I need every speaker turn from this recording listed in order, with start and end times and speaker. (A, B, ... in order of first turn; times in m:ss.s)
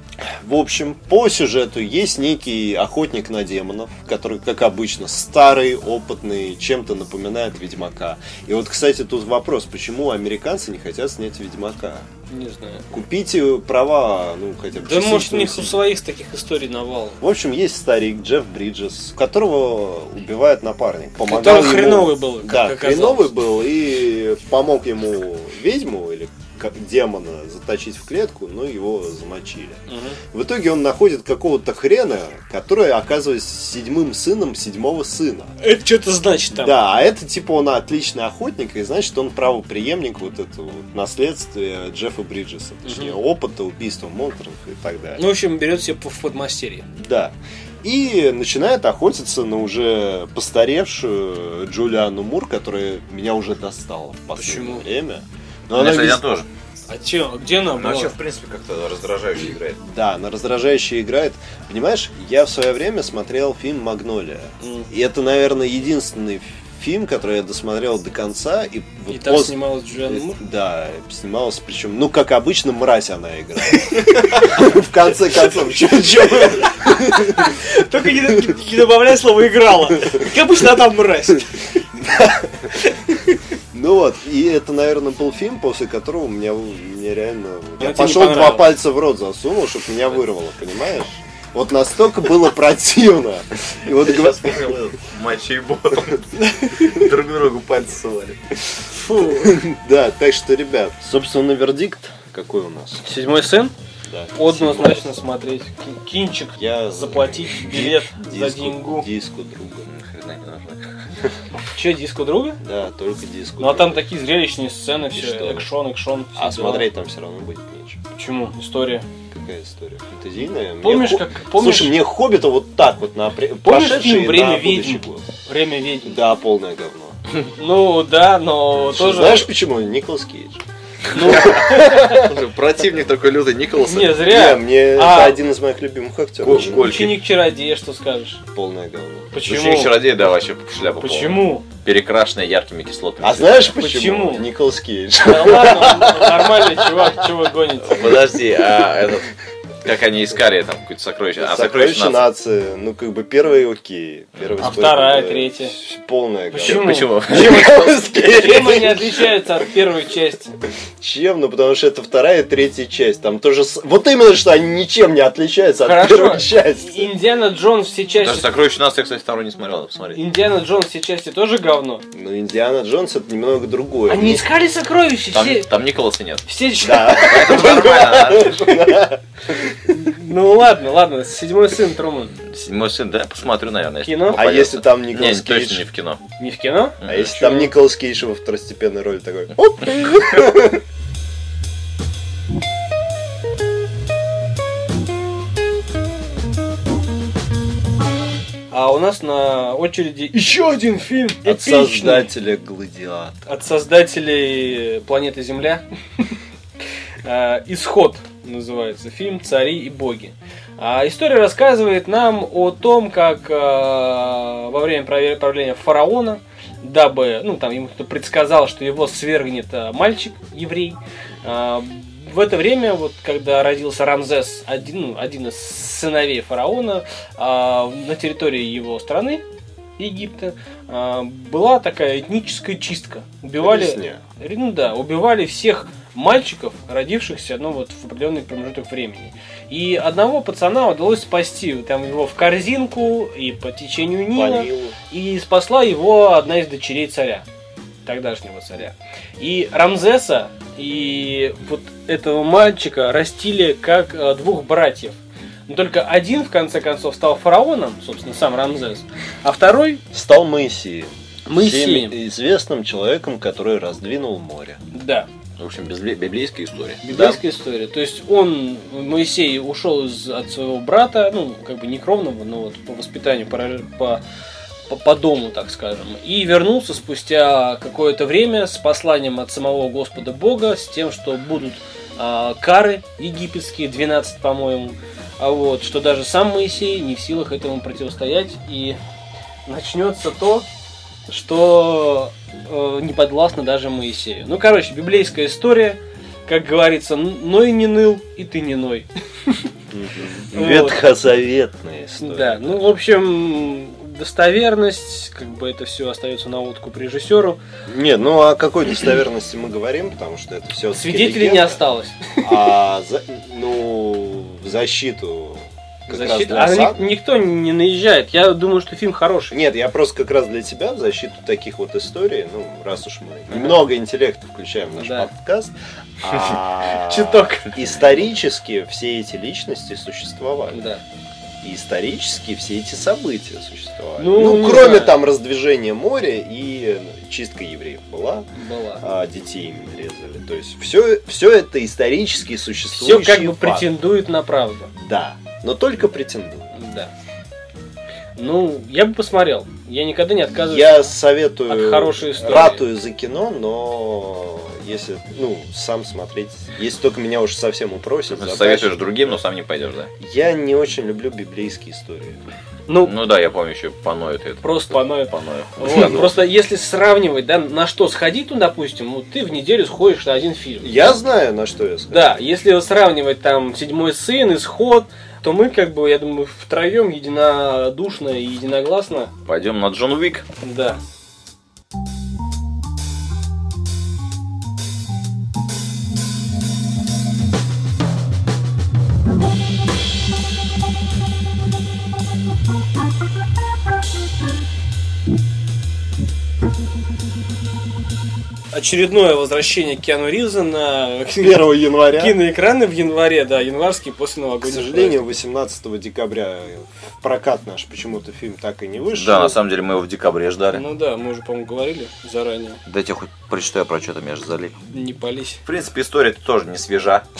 0:00.2-0:12.1 A
0:12.3-0:12.9 B
0:12.9-0:15.8 A
0:14.8-0:17.2 B
0:17.2-0:35.6 A
0:21.2-0:23.3 B
0:29.9-0:30.2 B
0:35.6-0:36.8 B
0:36.5-0:45.2 A
0:42.8-0:43.2 B
0:45.2-0:46.9 B
0:47.0-0:56.2 A
0:54.4-0:54.8 B
0:55.7-0:56.5 C
0:56.9-0:58.2 B
0:57.8-0:59.8 C
0:59.8-1:17.6 A
1:04.6-1:04.9 B
1:09.1-1:10.4 B
1:15.4-1:23.4 B
1:23.7-1:34.8 A
1:27.8-1:28.8 B
1:33.8-1:38.4 C
1:36.4-1:37.0 B
1:38.9-1:39.6 B
1:39.3-1:43.0 A
1:43.0-1:43.7 B
1:44.1-1:45.1 A
1:44.4-1:49.1 B
1:46.6-1:49.9 A
1:49.9-1:50.9 C
1:51.7-1:52.6 B
1:52.6-1:54.0 A
1:53.6-1:56.9 B
1:55.2-1:55.7 A
1:56.4-1:58.0 A
1:58.1-1:59.1 B
1:59.3-2:05.3 A
2:00.8-2:02.0 B
2:03.6-2:06.2 B
2:06.0-2:07.2 A
2:07.6-2:09.5 B
2:08.8-2:10.6 A
2:11.1-2:12.2 B
2:11.2-2:12.4 A
2:11.3-2:14.2 C
2:13.8-2:15.4 B
2:14.2-2:16.9 A
2:16.4-2:17.2 C
2:16.5-2:18.4 B
2:18.5-2:19.3 A
2:19.3-2:20.0 B
2:19.4-2:23.8 C
2:21.0-2:21.7 B
2:23.2-2:27.3 A
2:23.7-2:24.5 B
2:25.2-2:28.2 B
2:27.8-2:29.3 C
2:29.8-2:32.3 C
2:31.4-2:39.4 A
2:34.4-2:34.7 C
2:34.6-2:35.8 B
2:36.5-2:40.5 B
2:36.6-2:38.9 C
2:41.0-2:47.1 A
2:45.8-2:48.5 B
2:48.2-2:50.3 C
2:50.2-2:52.0 B
2:52.1-2:54.5 A
2:54.1-2:55.7 B
2:55.3-2:56.4 C
2:56.5-2:57.8 B
2:56.8-3:00.0 A
2:57.2-2:58.6 C
2:59.9-3:02.4 B
3:02.4-3:06.2 C
3:04.0-3:04.4 B
3:04.3-3:05.8 A
3:06.4-3:07.7 B
3:07.0-3:07.6 C
3:07.0-3:10.8 A
3:18.7-3:22.3 B
3:21.4-3:23.5 A
3:23.5-3:26.3 B
3:27.2-3:49.4 B
3:50.0-4:07.4 B
3:53.6-3:54.2 A
4:04.3-4:05.0 A
4:08.1-4:20.0 B
4:20.1-4:24.8 A
4:21.5-4:22.2 B
4:24.9-4:25.3 B
4:25.6-4:27.4 C
4:27.0-4:34.2 B
4:34.9-4:49.0 B
4:49.7-4:50.7 B
4:51.3-4:59.7 B
4:59.9-5:03.0 A
5:00.5-5:01.0 B
5:02.2-5:07.6 B
5:07.9-5:11.8 A
5:10.9-5:12.6 B
5:12.4-5:17.1 A
5:16.1-5:19.6 B
5:19.5-5:30.9 A
5:23.5-5:23.8 B
5:25.0-5:25.3 B
5:26.9-5:27.8 B
5:30.7-5:31.0 B
5:31.6-5:38.5 A
5:34.2-5:35.2 B
5:38.6-5:39.0 B
5:39.0-5:44.0 A
5:42.9-5:44.9 B
5:45.0-5:46.7 A
5:46.8-5:47.1 B
5:48.4-5:51.1 B
5:50.7-5:59.4 A
5:51.7-5:52.9 B
5:58.3-6:00.1 C
6:00.2-6:02.4 A
6:02.9-6:03.1 B
6:03.0-6:06.4 C
6:04.6-6:11.2 B
6:10.8-6:12.4 A
6:12.1-6:19.3 B
6:19.5-6:20.5 C
6:20.6-6:21.0 B
6:38.7-6:45.2 B
6:41.4-6:42.4 A
6:44.6-6:49.6 A
6:49.2-6:50.8 C
6:50.7-6:52.8 B
6:52.9-6:54.8 C
6:54.9-6:55.6 B
6:55.6-6:57.2 C